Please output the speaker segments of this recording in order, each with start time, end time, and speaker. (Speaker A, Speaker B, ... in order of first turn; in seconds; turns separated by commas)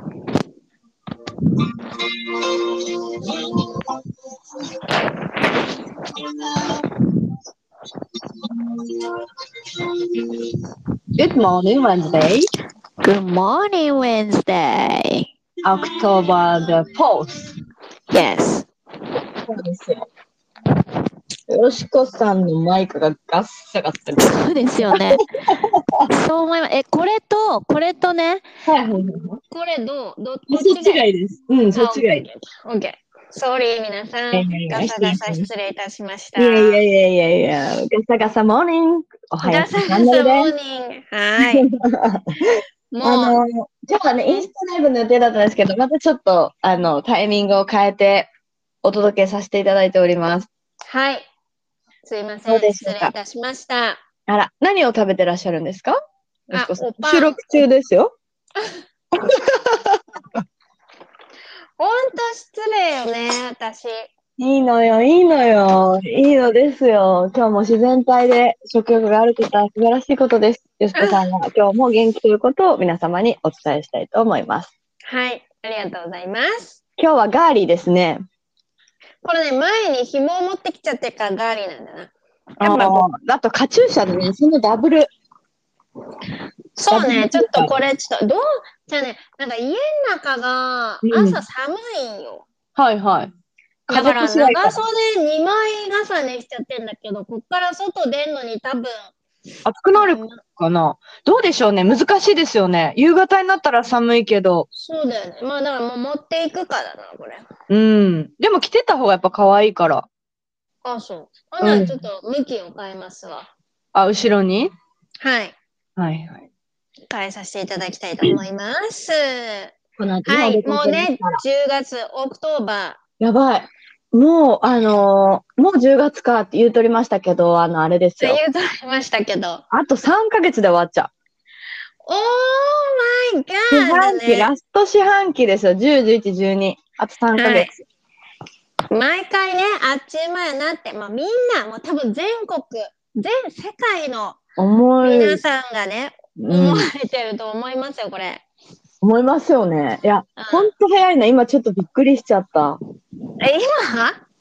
Speaker A: 2.0-3.8, Speaker A: 11.2-12.5, Speaker B: 13.0-15.2, Speaker A: 15.6-17.3, Speaker B: 18.1-18.7, Speaker A: 19.4-20.0, Speaker A: 21.5-24.2, Speaker B: 24.2-25.2, Speaker A: 24.8-26.1, Speaker B: 26.1-28.4, Speaker A: 28.6-29.4, Speaker B: 29.5-31.1, Speaker A: 30.5-32.3, Speaker B: 31.8-36.8, Speaker A: 34.3-35.5, Speaker A: 36.4-40.5, Speaker B: 39.4-41.6, Speaker A: 41.4-42.2, Speaker B: 42.9-43.4, Speaker A: 43.0-48.3, Speaker A: 48.8-50.5, Speaker B: 50.9-51.2, Speaker B: 52.0-54.0, Speaker A: 52.5-53.1, Speaker A: 54.3-55.9, Speaker A: 56.5-58.1, Speaker B: 56.5-57.6, Speaker A: 59.2-60.0, Speaker B: 61.8-64.0, Speaker A: 64.4-74.7, Speaker B: 70.9-71.2, Speaker B: 75.1-76.8, Speaker A: 77.0-78.2, Speaker B: 79.2-83.0, Speaker A: 82.6-85.1, Speaker B: 86.8-92.4, Speaker A: 86.9-87.7, Speaker A: 91.0-91.4, Speaker A: 92.8-93.3, Speaker B: 93.9-99.1, Speaker A: 93.9-94.8, Speaker A: 99.6-104.7, Speaker B: 99.9-100.4, Speaker B: 104.7-107.5, Speaker A: 107.7-110.1, Speaker B: 110.8-113.5, Speaker A: 111.6-112.0, Speaker A: 113.9-114.7, Speaker B: 115.2-115.5, Speaker A: 116.0-116.5, Speaker B: 117.1-119.7, Speaker A: 120.0-121.4, Speaker B: 120.2-123.0, Speaker A: 123.2-128.4, Speaker B: 128.2-129.6, Speaker A: 129.7-131.1, Speaker B: 132.0-134.5, Speaker A: 133.7-137.7, Speaker B: 137.3-137.8, Speaker B: 138.9-144.4, Speaker A: 144.6-145.4, Speaker B: 145.0-148.4, Speaker A: 146.4-146.9, Speaker A: 149.0-152.8, Speaker B: 150.4-150.7, Speaker B: 153.4-154.2